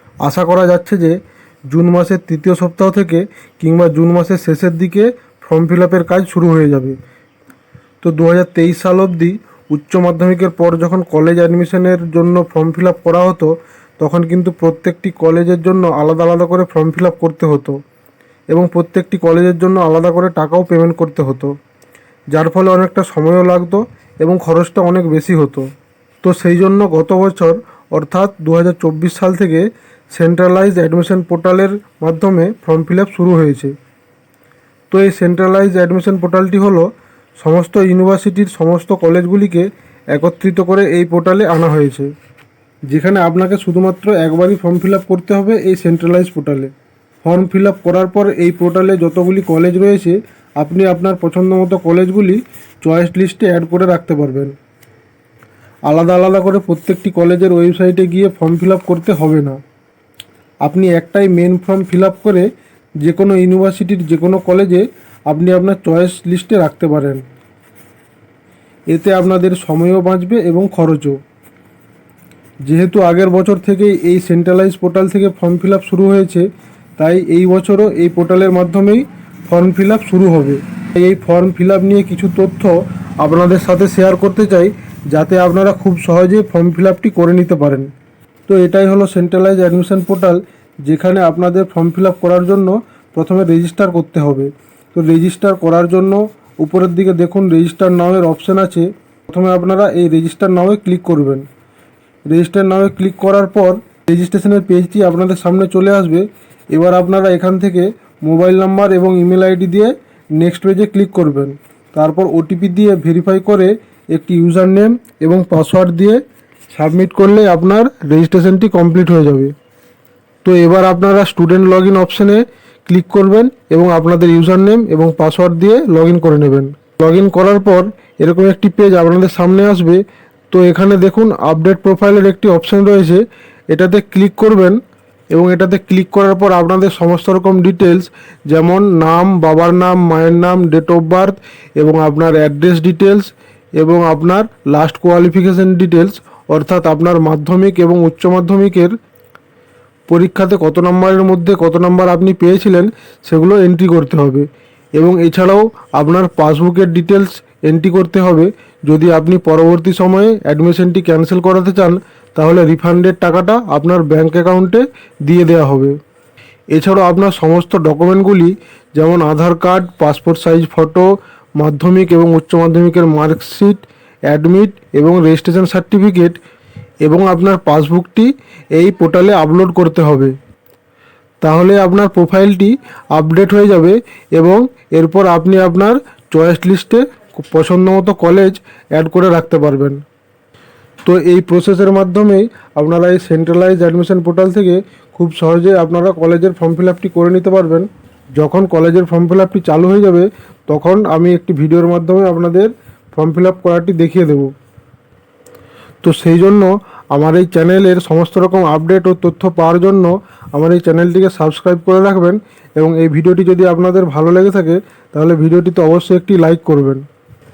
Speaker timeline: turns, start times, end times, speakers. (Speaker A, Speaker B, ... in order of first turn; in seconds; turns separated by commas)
Speaker A: 0.2-1.2, Speaker A: 1.7-7.0, Speaker A: 8.0-17.8, Speaker A: 18.5-21.5, Speaker A: 22.3-25.7, Speaker A: 26.2-33.7, Speaker A: 34.9-36.9, Speaker A: 37.4-42.1, Speaker A: 42.9-46.7, Speaker A: 47.2-54.5, Speaker A: 55.9-59.6, Speaker A: 60.6-62.5, Speaker A: 63.0-67.2, Speaker A: 68.9-71.2, Speaker A: 72.7-76.5, Speaker A: 77.0-87.9, Speaker A: 88.5-101.4, Speaker A: 102.3-116.2, Speaker A: 116.7-119.5, Speaker A: 120.4-134.8, Speaker A: 135.3-148.9, Speaker A: 150.1-165.9, Speaker A: 166.7-171.1, Speaker A: 171.6-176.4, Speaker A: 177.0-180.3, Speaker A: 181.4-190.0, Speaker A: 191.1-204.5, Speaker A: 206.0-217.0